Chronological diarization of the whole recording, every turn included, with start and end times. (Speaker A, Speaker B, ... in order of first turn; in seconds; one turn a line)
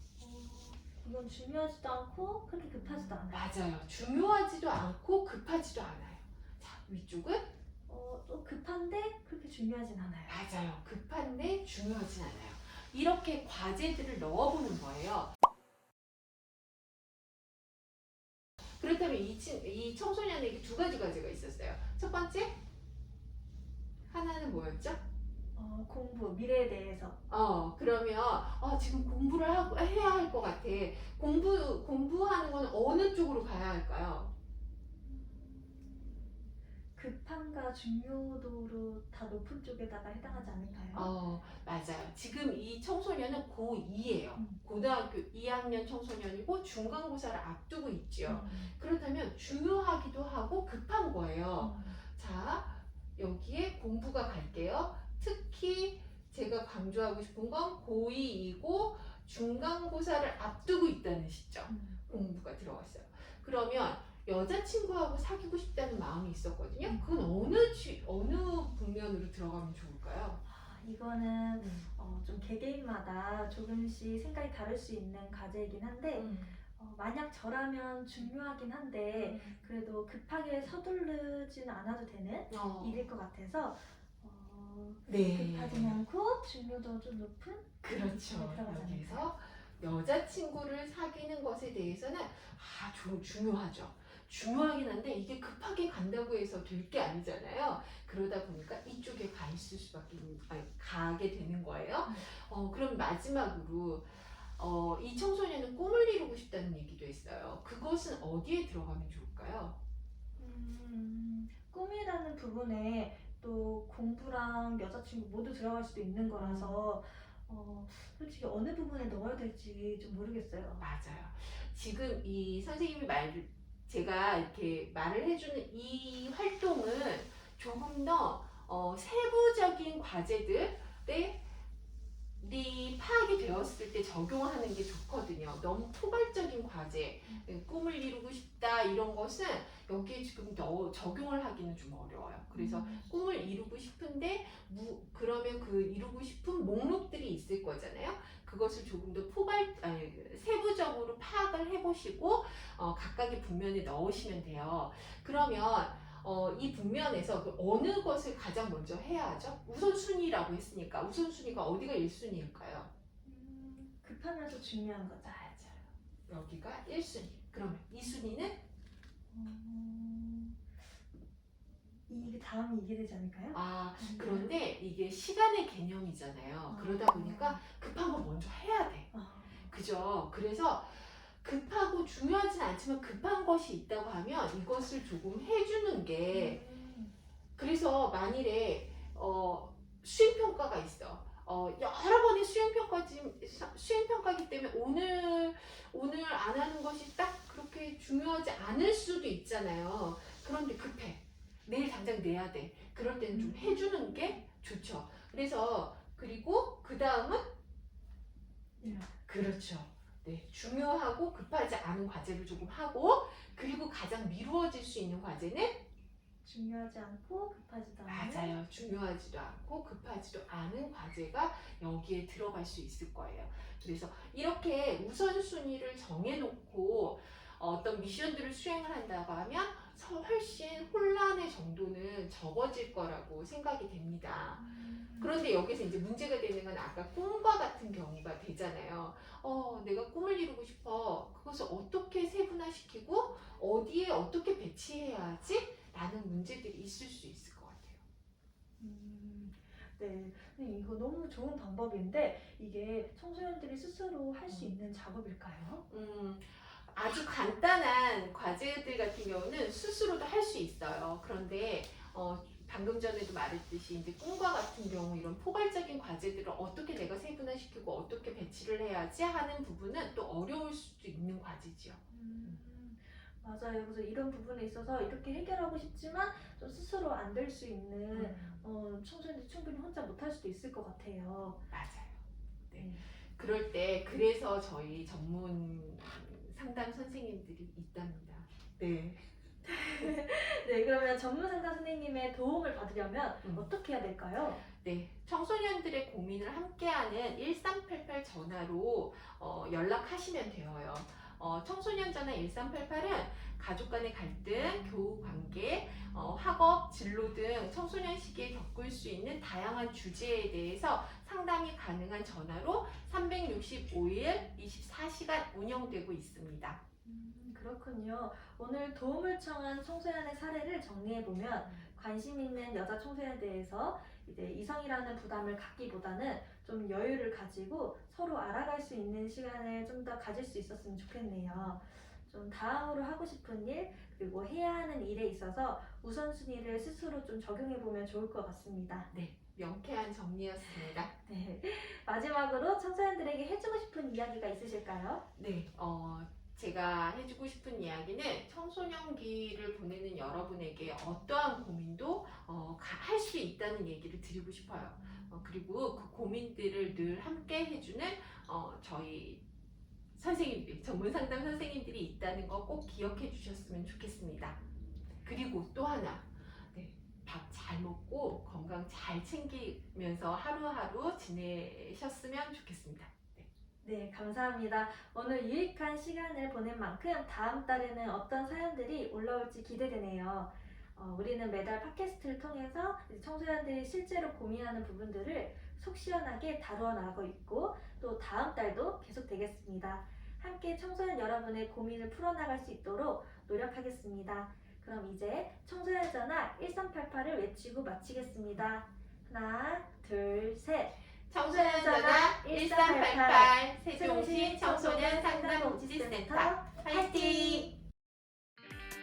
Speaker A: 0.2-3.4
Speaker B: 2.8-7.5
Speaker A: 7.9-10.4
Speaker B: 10.3-15.3
Speaker B: 18.6-22.6
Speaker B: 24.1-25.1
Speaker A: 25.6-27.2
Speaker B: 27.3-34.3
Speaker A: 35.0-36.3
Speaker A: 37.0-41.1
Speaker B: 40.3-70.4
Speaker A: 44.4-44.6
Speaker A: 48.3-48.7
Speaker A: 51.6-52.0
Speaker A: 61.7-62.0
Speaker A: 70.5-89.3
Speaker B: 71.6-71.9
Speaker B: 76.1-76.6
Speaker B: 79.1-79.6
Speaker B: 82.5-83.0
Speaker B: 85.1-86.0
Speaker B: 87.8-109.8
Speaker A: 110.4-120.9
Speaker B: 116.4-116.8
Speaker B: 120.8-131.5
Speaker B: 132.4-162.9
Speaker A: 142.5-143.1
Speaker A: 163.2-165.4
Speaker B: 165.2-168.6
Speaker A: 169.3-170.6
Speaker A: 172.1-174.6
Speaker B: 173.5-179.1
Speaker A: 176.7-177.6
Speaker A: 179.1-179.7
Speaker B: 179.7-186.6
Speaker A: 186.3-187.2
Speaker B: 187.6-207.5
Speaker A: 203.3-204.4
Speaker A: 208.8-209.1
Speaker B: 209.3-215.8
Speaker A: 216.4-218.6
Speaker B: 218.1-248.0
Speaker A: 234.6-235.4
Speaker A: 248.8-255.8
Speaker B: 254.5-254.7
Speaker B: 255.9-272.6
Speaker A: 272.1-281.6
Speaker B: 278.1-278.6
Speaker B: 281.7-289.3
Speaker A: 282.8-283.1
Speaker A: 289.6-294.6
Speaker B: 293.4-293.7
Speaker B: 294.7-316.8
Speaker A: 317.0-339.1
Speaker B: 321.6-321.9
Speaker B: 331.5-331.8
Speaker B: 339.1-341.1
Speaker A: 341.2-345.2
Speaker B: 345.4-359.4
Speaker B: 360.2-364.6
Speaker B: 365.2-373.5
Speaker A: 373.8-407.7
Speaker B: 401.3-407.7